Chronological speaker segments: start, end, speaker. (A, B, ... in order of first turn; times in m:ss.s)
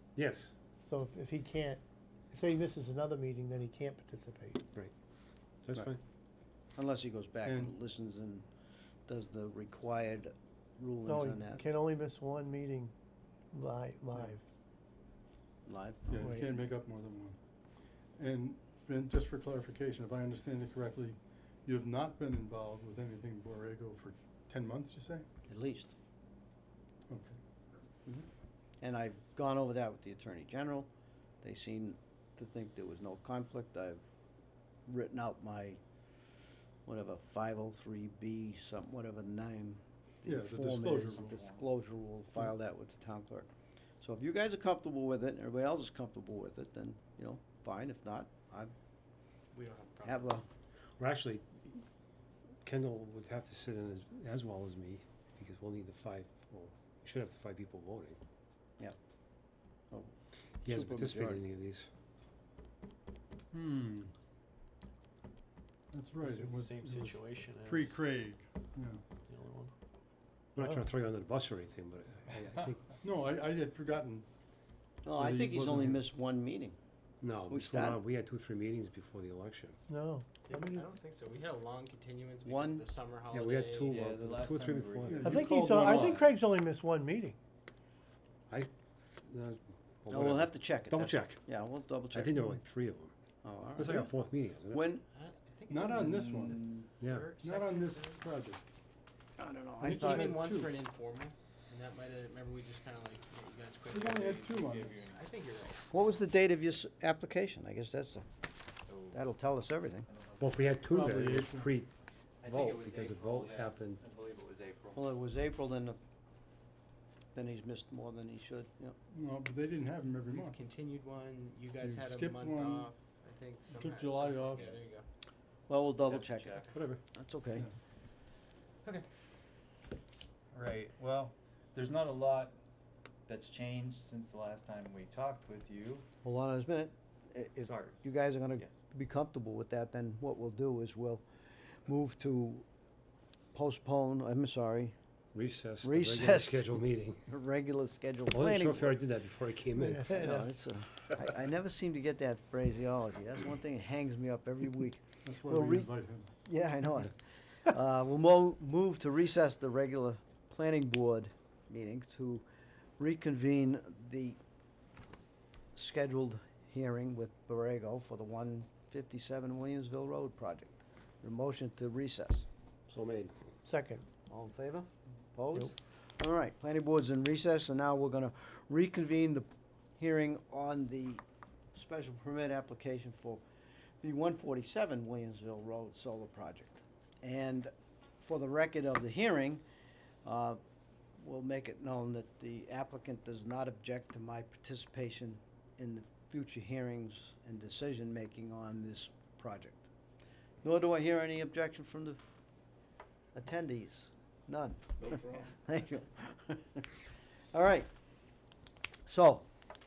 0:00.2-0:00.5 A
0:00.8-0:01.8 B
0:02.3-0:04.6 B
0:05.6-0:06.0 A
0:06.8-0:08.4 C
0:07.4-0:07.7 D
0:09.1-0:11.6 C
0:11.1-0:12.9 B
0:13.5-0:14.4 B
0:15.7-0:16.3 C
0:16.1-0:17.4 D
0:16.2-0:16.5 B
0:18.2-0:25.3 D
0:25.4-0:26.0 C
0:27.1-0:27.4 D
0:28.8-0:30.9 C
0:31.4-0:34.0 C
0:34.9-0:35.8 C
0:36.8-0:43.5 C
0:40.3-0:41.5 D
0:44.0-0:48.7 C
0:49.5-0:50.3 E
0:50.1-0:50.5 C
0:51.0-0:51.8 A
0:52.6-0:58.2 A
1:00.6-1:01.9 A
1:00.7-1:01.4 C
1:03.5-1:04.1 D
1:05.9-1:09.0 D
1:06.2-1:08.0 E
1:09.3-1:09.7 E
1:10.6-1:13.0 A
1:10.6-1:10.8 B
1:13.0-1:14.3 D
1:15.0-1:16.8 C
1:15.2-1:16.0 D
1:17.2-1:19.8 A
1:17.5-1:18.0 C
1:19.9-1:20.9 B
1:20.4-1:24.0 E
1:22.4-1:22.9 C
1:23.3-1:25.4 A
1:23.9-1:26.3 F
1:25.0-1:26.2 D
1:25.2-1:27.4 B
1:28.5-1:31.4 A
1:30.1-1:32.4 C
1:32.1-1:33.1 A
1:33.4-1:34.1 C
1:33.8-1:34.8 A
1:34.7-1:35.0 C
1:35.1-1:38.3 E
1:35.7-1:36.6 D
1:35.9-1:36.9 F
1:37.0-1:37.3 A
1:37.4-1:38.6 D
1:39.4-1:40.3 C
1:39.8-1:40.8 D
1:39.8-1:45.9 E
1:43.9-1:44.9 D
1:44.1-1:45.2 F
1:45.9-1:48.3 C
1:48.9-1:49.2 F
1:49.1-1:50.1 C
1:50.1-1:50.8 F
1:50.4-1:51.9 A
1:50.9-1:51.7 D
1:52.4-1:55.1 F
1:52.5-1:54.0 A
1:55.0-1:56.0 C
1:57.4-1:59.0 C
1:59.1-2:00.6 D
2:00.3-2:05.1 E
2:01.8-2:02.9 D
2:03.7-2:04.8 D
2:05.7-2:07.7 C
2:06.1-2:06.7 F
2:06.7-2:07.0 A
2:10.5-2:12.5 F
2:13.3-2:16.0 F
2:16.2-2:22.7 C
2:17.6-2:18.0 F
2:23.5-2:25.0 C
2:25.3-2:27.2 A
2:25.8-2:26.8 C
2:27.3-2:29.0 C
2:28.3-2:30.2 A
2:29.8-2:30.5 B
2:30.1-2:35.9 C
2:35.2-2:36.3 D
2:36.4-2:42.4 C
2:43.0-2:44.4 C
2:45.8-2:52.5 C
2:52.9-2:53.3 A
2:53.6-2:54.0 B
2:54.3-3:01.2 C
3:01.7-3:03.4 C
3:04.0-3:09.6 C
3:10.2-3:10.6 C
3:11.2-3:19.9 C
3:20.6-3:22.2 C
3:23.3-3:26.9 C
3:25.0-3:25.5 F
3:27.5-3:27.9 C
3:29.1-3:29.5 C